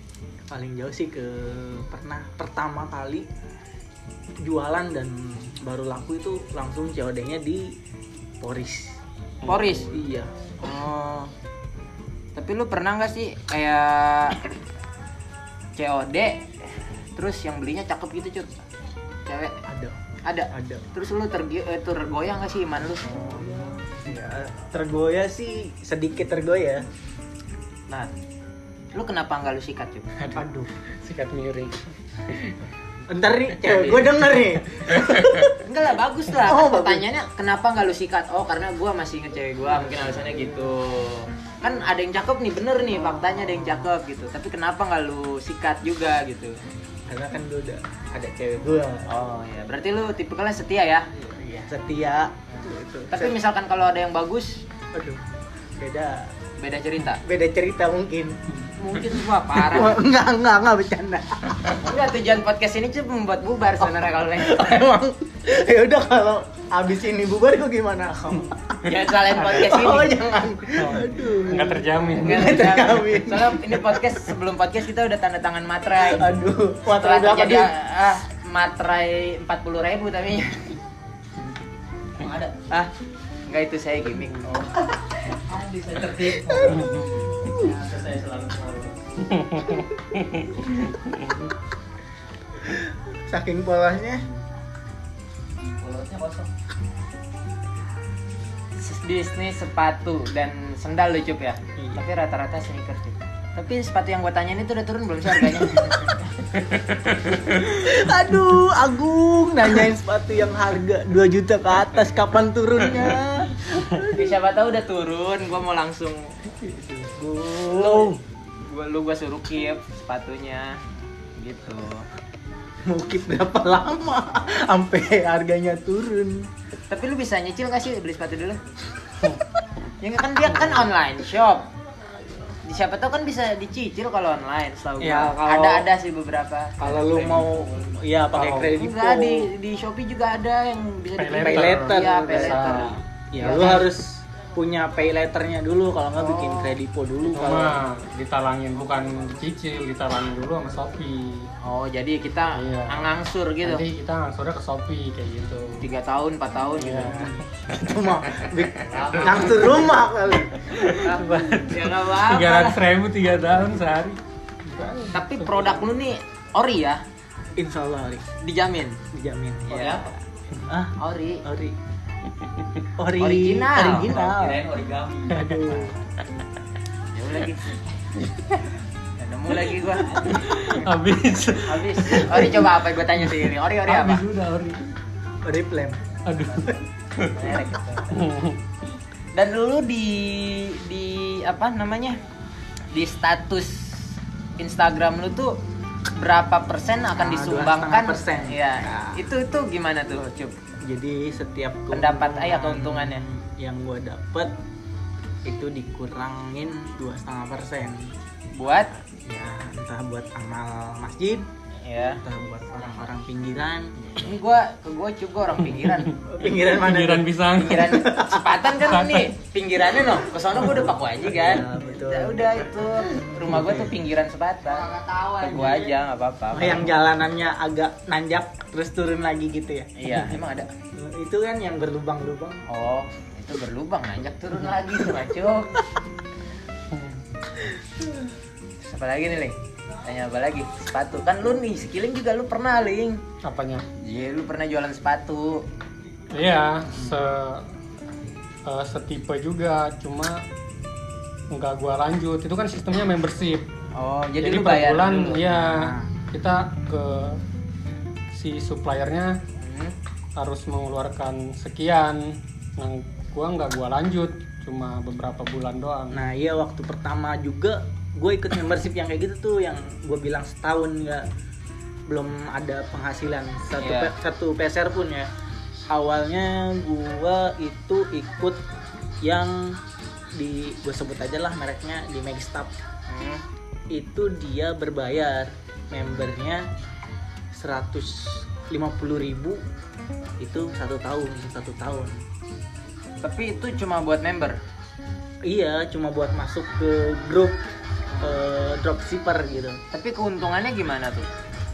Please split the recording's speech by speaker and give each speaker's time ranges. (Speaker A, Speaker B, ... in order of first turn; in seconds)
Speaker A: 0.5-3.3, 4.4-7.8, 8.4-10.3, 19.6-20.0, 20.5-20.8, 23.0-26.8, 30.4-30.7, 33.1-35.6, 36.4-37.0, 39.9-40.7, 47.1-49.1, 51.3-53.4, 54.9-55.2, 55.8-56.3, 57.2-58.4, 59.5-61.8, 64.3-74.1, 76.0-77.7, 86.4-86.9, 87.4-87.7, 92.6-94.2, 101.8-102.0, 107.3-114.2, 116.8-118.2, 122.8-126.5, 135.0-135.9, 136.8-139.5, 141.4-147.8, 157.3-160.6, 167.6-168.2, 169.1-169.9, 170.7-171.8, 173.0-174.7, 175.3-175.9, 185.4-186.0, 197.2-199.2, 200.8-204.5, 205.4-208.1, 209.1-211.5, 212.2-214.2, 216.2-218.7, 220.5-223.9, 226.5-230.3, 230.9-232.6, 255.6-256.1, 266.1-271.3, 272.1-275.3, 275.9-278.6, 279.2-279.8, 280.3-282.7, 283.9-286.6, 287.5-289.6, 290.4-292.2, 295.4-297.6, 298.2-299.8
Speaker B: 9.4-9.9, 10.6-11.3, 12.3-14.4, 15.8-18.6, 19.2-19.6, 20.2-23.1, 28.9-30.1, 35.6-46.6, 49.1-51.0, 53.1-54.6, 56.6-57.2, 58.8-60.0, 61.8-64.8, 68.8-70.2, 72.2-76.3, 76.9-80.8, 83.5-84.5, 98.8-106.2, 114.0-116.5, 117.7-122.0, 126.9-128.6, 130.0-131.7, 132.6-137.6, 138.7-143.9, 146.2-146.7, 151.6-153.8, 155.8-157.3, 161.0-162.8, 165.1-167.0, 168.4-169.0, 169.7-170.2, 171.0-171.4, 173.2-174.1, 175.7-175.9, 177.1-178.2, 179.2-180.7, 181.6-184.2, 187.3-188.2, 189.3-192.2, 192.9-195.6, 196.2-200.6, 201.9-203.2, 208.5-208.9, 211.8-212.2, 214.2-216.1, 217.5-226.9, 229.9-230.7, 232.7-235.8, 238.8-243.2, 244.0-245.6, 253.9-255.6, 259.6-259.9, 273.8-274.1, 283.1-283.4, 293.2-294.6, 299.9-301.3
Speaker C: 31.0-32.5, 34.4-35.4, 70.8-72.8, 86.8-87.0, 89.2-91.3, 106.8-107.1, 138.3-138.7, 141.2-142.9, 147.3-151.5, 152.5-153.1, 153.6-155.9, 156.8-157.4, 158.4-159.7, 160.6-165.8, 180.2-184.9, 186.2-187.3, 188.1-188.6, 215.7-218.1, 218.8-219.3, 236.9-237.2, 243.4-243.8, 246.3-247.7, 248.7-250.4, 251.5-253.7, 254.4-257.4, 258.3-259.4, 260.4-266.2
Speaker D: 82.2-82.6, 84.5-89.2, 95.6-96.5, 158.9-159.8, 169.7-170.1, 173.9-175.7, 224.7-225.9